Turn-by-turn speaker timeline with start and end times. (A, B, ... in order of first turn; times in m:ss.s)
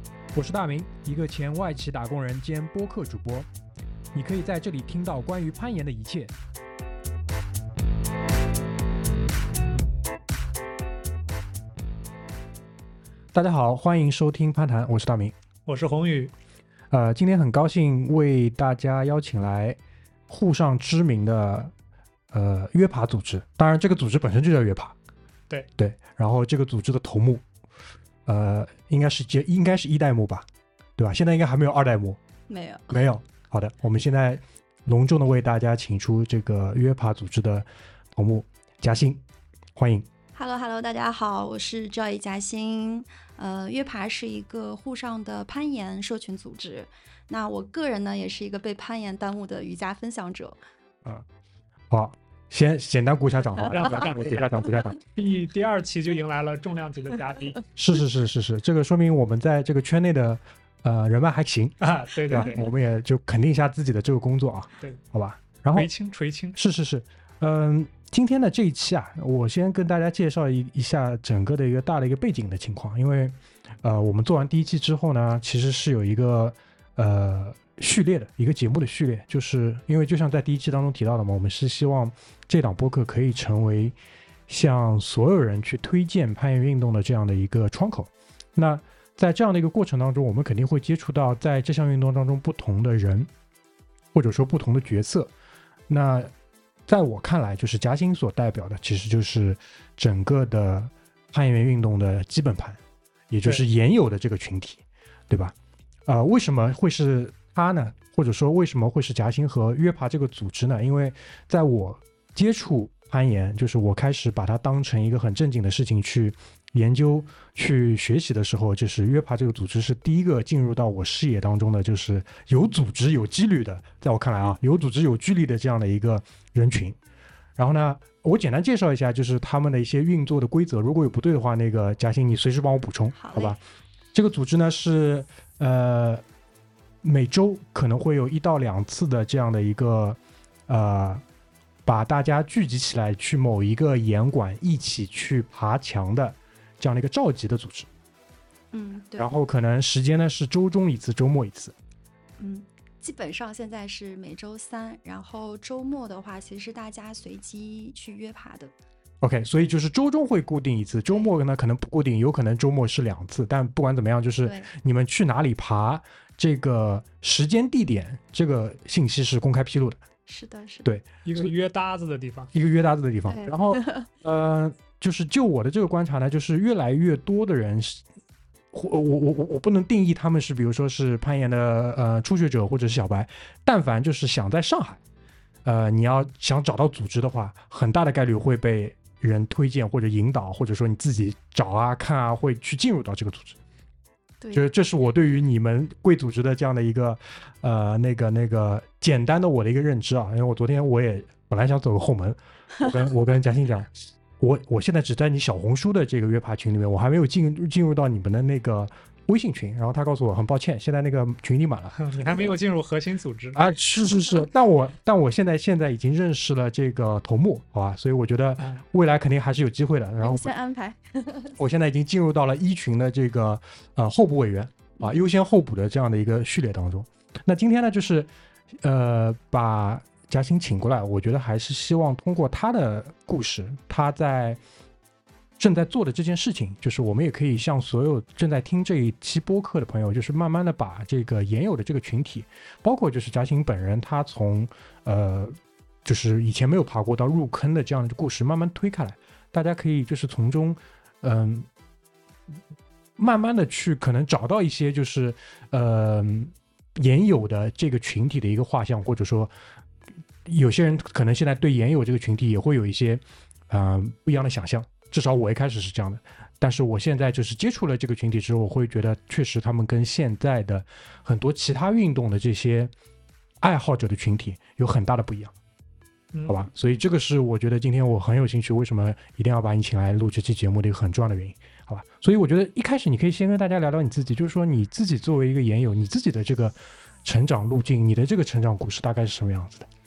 0:00.3-0:03.5 A
0:04.1-0:06.3 A
0:13.3-0:15.3 A
0:15.6-0:16.3 B
0:16.9-0:21.7 A
0:22.3-0:24.9 A
0:25.8-0:27.4 A
0:28.2-0:32.2 A
0:32.5-0:33.0 C
0:32.9-0:39.2 A
0:39.8-0:40.1 A
0:40.3-0:50.6 C
0:51.9-0:55.0 A
0:53.8-0:54.4 B
0:55.1-0:57.6 B
0:57.8-1:01.8 A
1:01.8-1:02.7 B
1:02.3-1:05.9 A
1:05.7-1:06.6 B
1:06.5-1:24.0 A
1:24.5-1:33.3 A
1:34.1-1:35.3 A
1:35.9-1:36.3 A
1:36.9-1:45.5 A
1:46.1-2:07.0 A
2:07.6-2:13.6 A
2:13.1-2:13.6 C
2:14.1-2:16.2 A
2:17.0-2:21.2 A
2:21.8-2:27.9 A
2:28.7-2:29.3 C
2:29.2-2:31.7 A
2:32.4-2:38.7 C
2:39.2-2:50.0 A
2:44.4-2:44.7 C
2:50.3-2:50.9 C
2:50.8-2:51.5 A
2:51.2-2:52.5 B
2:52.5-2:58.0 A
2:53.3-2:54.1 C
2:58.7-3:05.0 A
3:05.6-3:13.6 A
3:14.5-3:32.0 A
3:32.0-3:33.6 B
3:33.5-3:40.5 A
3:38.6-3:38.8 B
3:40.2-3:41.6 C
3:41.6-3:48.3 A
3:45.0-3:45.2 C
3:48.8-3:54.6 A
3:55.6-4:11.7 A
4:13.2-4:19.5 A
4:20.4-4:32.9 A
4:33.6-4:35.5 A
4:36.3-4:36.6 B
4:36.5-4:49.9 A